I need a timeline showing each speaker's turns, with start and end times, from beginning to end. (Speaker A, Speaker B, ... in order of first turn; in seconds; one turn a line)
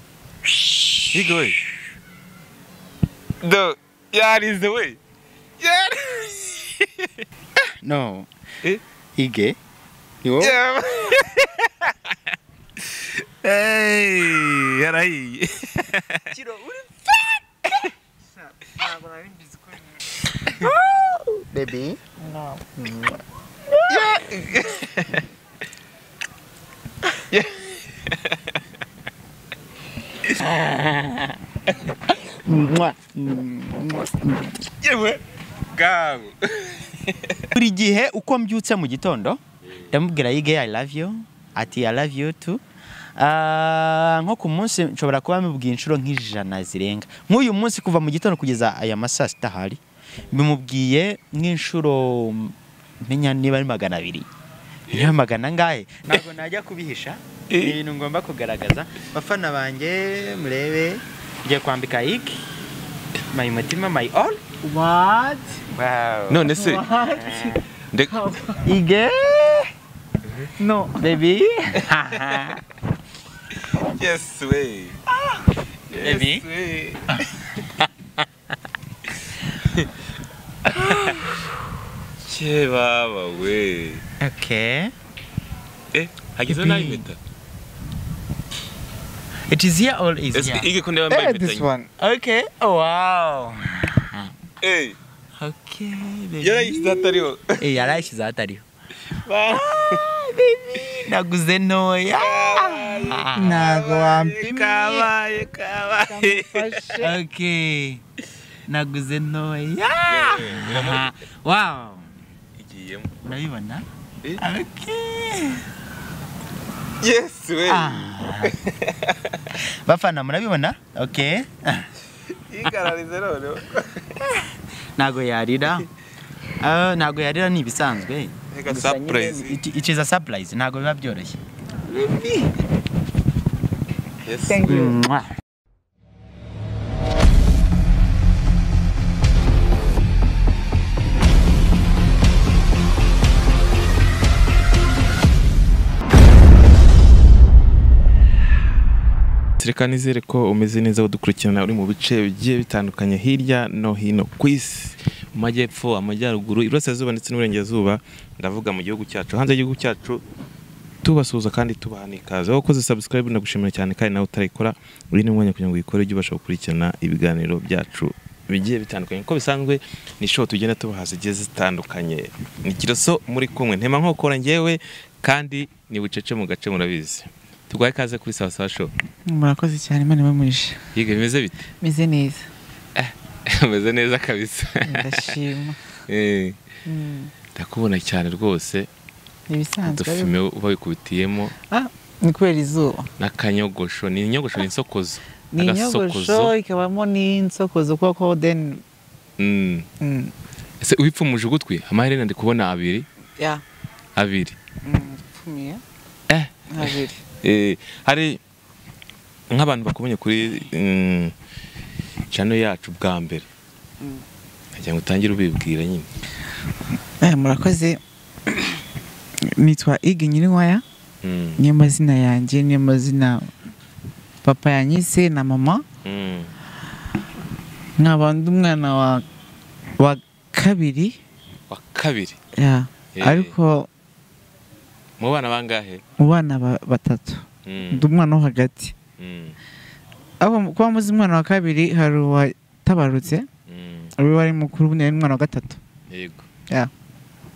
Speaker A: 0.5-1.4
Speaker B: 1.1-1.6
Speaker B: 3.4-5.0
Speaker B: 5.6-7.2
Speaker A: 7.8-8.3
Speaker A: 9.2-9.6
Speaker A: 10.2-10.6
Speaker B: 10.4-12.1
Speaker B: 12.8-16.3
Speaker A: 16.3-17.4
Speaker C: 18.4-20.1
Speaker A: 20.5-22.0
Speaker C: 22.2-23.1
Speaker A: 23.9-24.2
Speaker B: 23.9-25.2
Speaker B: 27.3-28.5
Speaker A: 30.4-31.4
Speaker A: 32.5-34.1
Speaker B: 34.9-35.2
Speaker B: 35.7-37.5
Speaker A: 37.5-42.6
Speaker A: 43.2-54.3
Speaker A: 54.9-62.4
Speaker B: 57.5-57.8
Speaker A: 63.3-64.4
Speaker C: 64.6-65.6
Speaker A: 65.7-66.5
Speaker B: 66.3-66.8
Speaker C: 66.5-68.7
Speaker A: 67.2-67.6
Speaker A: 68.6-69.7
Speaker B: 70.2-70.5
Speaker C: 70.6-71.1
Speaker A: 71.0-72.6
Speaker B: 73.7-75.0
Speaker B: 75.9-77.2
Speaker A: 76.0-76.4
Speaker A: 77.1-77.9
Speaker A: 80.6-81.5
Speaker B: 80.9-81.2
Speaker B: 82.2-84.0
Speaker A: 84.2-84.9
Speaker B: 85.9-87.2
Speaker A: 86.5-87.0
Speaker A: 89.5-90.7
Speaker B: 90.3-91.7
Speaker C: 91.1-91.9
Speaker A: 92.0-94.3
Speaker B: 94.6-95.0
Speaker A: 95.4-98.6
Speaker B: 96.4-97.9
Speaker B: 99.1-100.0
Speaker A: 99.5-103.7
Speaker B: 102.1-106.9
Speaker C: 103.3-105.1
Speaker C: 106.0-107.2
Speaker A: 107.0-108.0
Speaker A: 108.7-112.1
Speaker B: 110.0-111.1
Speaker B: 112.5-113.1
Speaker A: 113.2-113.8
Speaker A: 114.4-115.6
Speaker B: 117.0-119.4
Speaker A: 117.7-118.6
Speaker A: 119.6-121.9
Speaker B: 122.5-124.2
Speaker A: 125.0-125.9
Speaker A: 126.6-131.4
Speaker B: 128.5-129.6
Speaker C: 131.9-132.5
Speaker B: 134.2-134.7
Speaker C: 134.5-134.9
Speaker A: 134.6-135.3
Speaker B: 149.6-160.2
Speaker B: 161.0-178.9
Speaker C: 179.2-180.8
Speaker B: 180.9-181.7
Speaker C: 181.8-182.5
Speaker B: 182.9-185.3
Speaker C: 184.8-185.8
Speaker B: 186.1-186.6
Speaker C: 186.8-187.3
Speaker B: 187.5-188.9
Speaker C: 189.5-190.3
Speaker B: 189.8-191.5
Speaker C: 191.7-193.1
Speaker B: 193.2-196.5
Speaker C: 195.5-198.8
Speaker B: 199.4-199.9
Speaker C: 200.0-200.3
Speaker B: 200.8-203.1
Speaker C: 203.4-203.6
Speaker B: 204.2-204.6
Speaker C: 204.8-205.8
Speaker B: 206.3-208.4
Speaker C: 206.7-207.2
Speaker B: 209.5-211.3
Speaker B: 212.3-213.4
Speaker B: 214.7-216.1
Speaker C: 217.2-218.0
Speaker C: 219.4-220.8
Speaker B: 221.2-221.6
Speaker C: 221.6-223.5
Speaker C: 224.4-225.8
Speaker B: 226.0-226.5
Speaker C: 228.0-229.2
Speaker C: 230.0-231.2
Speaker B: 231.7-232.4
Speaker C: 232.5-233.9
Speaker B: 233.1-233.5
Speaker B: 235.2-236.0
Speaker C: 236.2-238.9
Speaker B: 237.7-238.1
Speaker B: 239.2-239.6
Speaker C: 240.4-243.5
Speaker B: 243.7-244.1
Speaker C: 244.2-245.8
Speaker B: 246.1-246.4